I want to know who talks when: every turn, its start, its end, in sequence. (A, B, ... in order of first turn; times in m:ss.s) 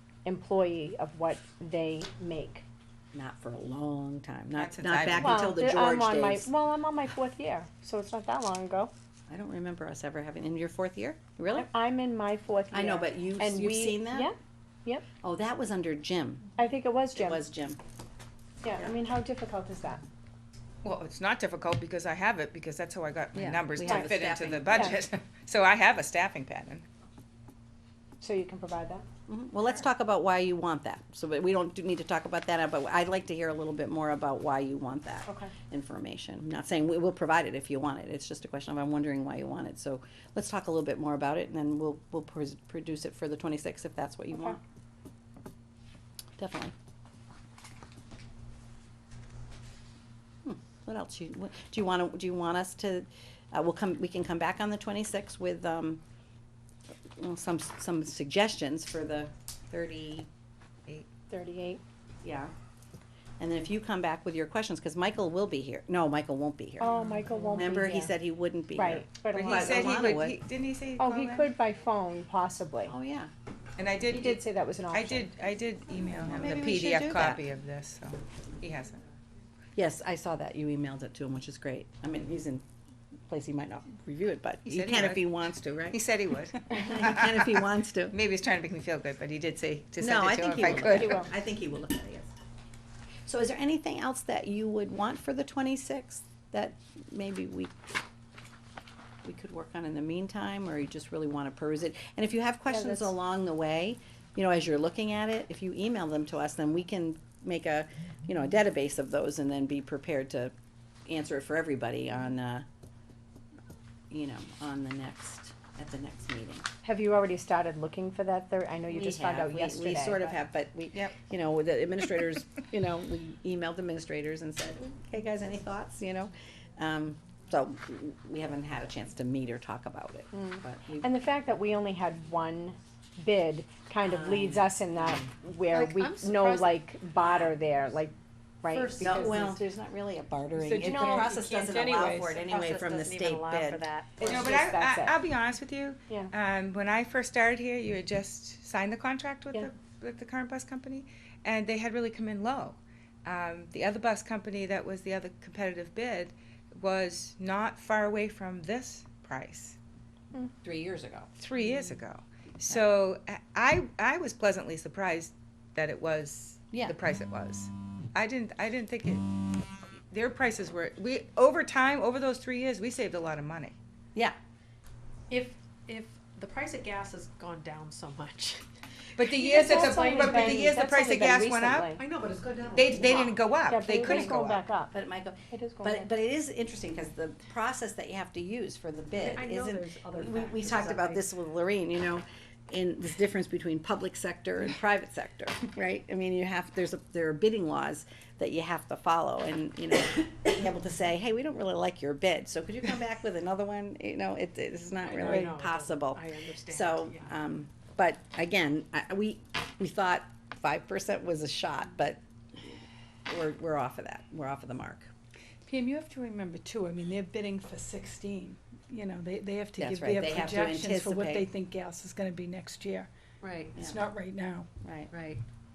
0:00.2-0:02.6 A
0:03.1-0:06.5 B
0:04.5-0:05.5 C
0:05.2-0:08.9 A
0:09.3-0:11.7 B
0:11.5-0:15.1 A
0:12.7-0:14.3 B
0:15.2-0:16.5 B
0:16.6-0:17.4 A
0:17.1-0:17.8 B
0:18.6-0:20.0 A
0:20.8-0:26.8 C
0:23.3-0:25.0 B
0:23.8-0:24.1 A
0:24.7-0:24.9 A
0:28.2-0:29.0 A
0:29.3-0:44.6 B
0:35.3-0:35.5 A
0:46.4-0:46.7 B
0:50.4-0:56.0 B
0:57.2-1:00.3 B
1:01.3-1:01.8 A
1:02.2-1:02.5 B
1:03.4-1:06.9 B
1:06.8-1:08.1 A
1:07.5-1:10.4 B
1:08.7-1:10.2 A
1:09.3-1:11.5 C
1:11.0-1:12.9 A
1:12.8-1:13.3 B
1:13.8-1:19.0 C
1:14.1-1:15.3 A
1:16.3-1:17.4 B
1:19.7-1:22.6 B
1:23.3-1:26.0 B
1:24.6-1:25.3 C
1:25.9-1:31.2 C
1:26.5-1:28.2 B
1:30.0-1:32.3 B
1:30.8-1:31.3 A
1:33.2-1:37.7 B
1:39.2-1:50.5 B
1:42.7-1:43.1 A
1:51.0-1:52.6 B
1:54.1-1:56.7 B
1:56.8-2:00.4 A
1:58.9-2:11.1 B
2:10.3-2:19.3 A
2:14.0-2:15.2 B
2:15.7-2:17.6 D
2:18.7-2:19.6 D
2:19.0-2:23.8 B
2:20.6-2:22.3 E
2:20.8-2:21.3 A
2:21.1-2:24.5 D
2:24.2-2:39.8 C
2:24.2-2:25.2 A
2:40.6-2:41.3 B
2:41.4-2:49.3 C
2:50.1-2:53.8 C
2:55.3-2:58.6 D
2:59.2-3:02.0 C
2:59.2-3:00.7 D
2:59.3-3:02.0 A
3:02.0-3:03.4 D
3:02.7-3:04.6 C
3:03.0-3:03.3 B
3:03.6-3:04.9 A
3:04.0-3:04.4 B
3:04.9-3:32.8 B
3:05.5-3:06.1 A
3:09.1-3:11.3 D
3:25.0-3:27.4 D
3:25.2-3:25.5 E
3:33.3-3:35.1 B
3:35.6-3:43.1 E
3:39.8-3:41.5 B
3:43.4-3:43.8 D
3:43.7-3:44.7 E
3:43.8-3:44.0 B
3:44.8-3:45.1 B
3:45.1-3:45.4 D